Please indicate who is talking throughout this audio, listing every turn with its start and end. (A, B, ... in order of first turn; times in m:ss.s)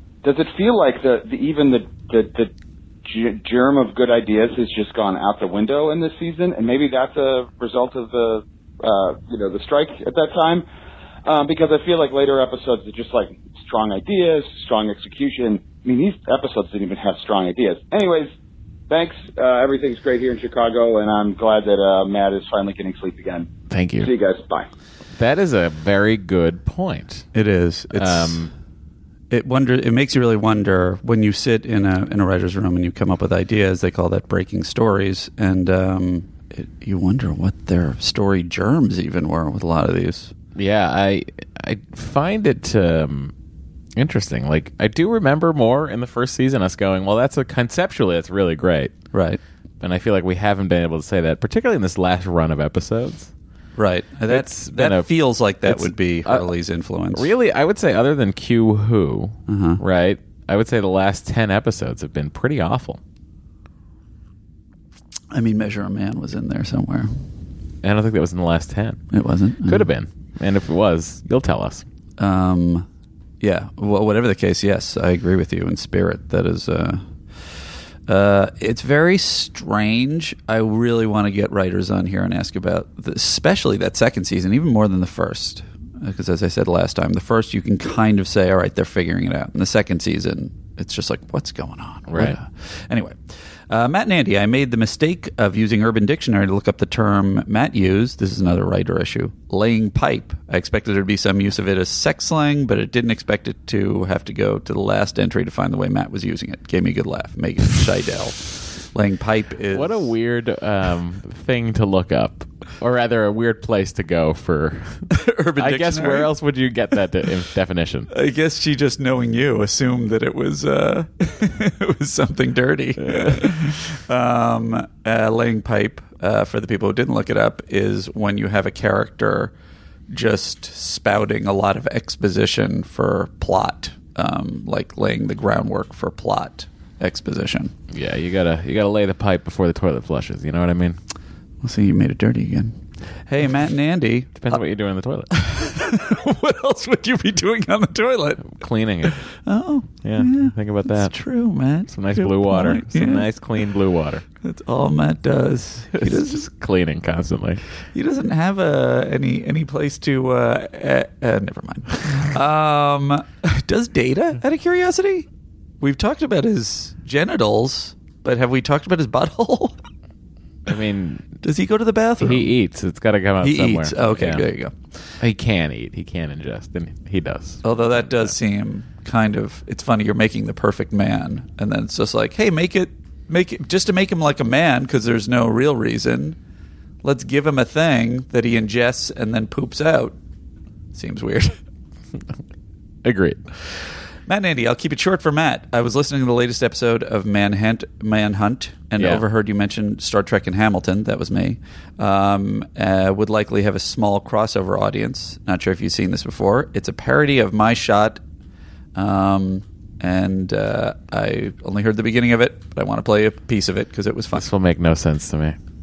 0:00.2-0:02.5 A
0:03.0-0:10.6 A
0:11.2-0:18.3 A
0:18.9-0:23.5 A
0:23.7-0:24.1 B
0:24.0-0:24.7 A
0:25.1-0:27.3 B
0:27.3-0:28.5 C
0:27.9-0:28.5 B
0:29.3-0:40.3 C
0:40.6-0:43.3 B
0:44.0-0:48.9 B
0:49.1-0:49.4 C
0:49.8-0:53.3 B
0:53.8-0:57.3 C
0:54.3-0:55.1 B
0:55.6-0:56.5 B
0:57.1-1:03.0 B
0:59.5-0:59.8 C
1:05.3-1:07.2 C
1:07.8-1:09.0 B
1:09.1-1:09.9 C
1:09.6-1:11.8 B
1:12.2-1:12.9 C
1:13.4-1:17.1 C
1:18.1-1:50.1 C
1:32.1-1:32.4 B
1:49.7-1:58.1 B
1:55.1-1:56.3 C
1:58.1-2:09.5 C
2:03.0-2:03.5 B
2:10.1-2:17.7 C
2:17.9-2:21.0 B
2:21.6-2:24.6 C
2:24.4-2:25.4 B
2:25.3-2:28.5 C
2:28.4-2:29.2 B
2:29.0-2:33.3 C
2:30.0-2:31.1 B
2:31.9-2:34.2 B
2:34.4-2:36.4 C
2:35.9-2:37.6 B
2:37.9-2:45.3 C
2:45.8-2:49.8 C
2:50.7-2:51.4 B
2:51.4-2:52.5 C
2:52.2-2:54.4 B
2:53.4-2:54.8 C
2:55.2-2:58.3 B
2:57.6-3:06.4 C
3:07.0-3:10.2 C
3:10.9-3:11.6 C
3:13.0-3:13.5 B
3:14.3-3:28.2 C
3:28.9-3:34.5 C
3:34.3-3:35.6 B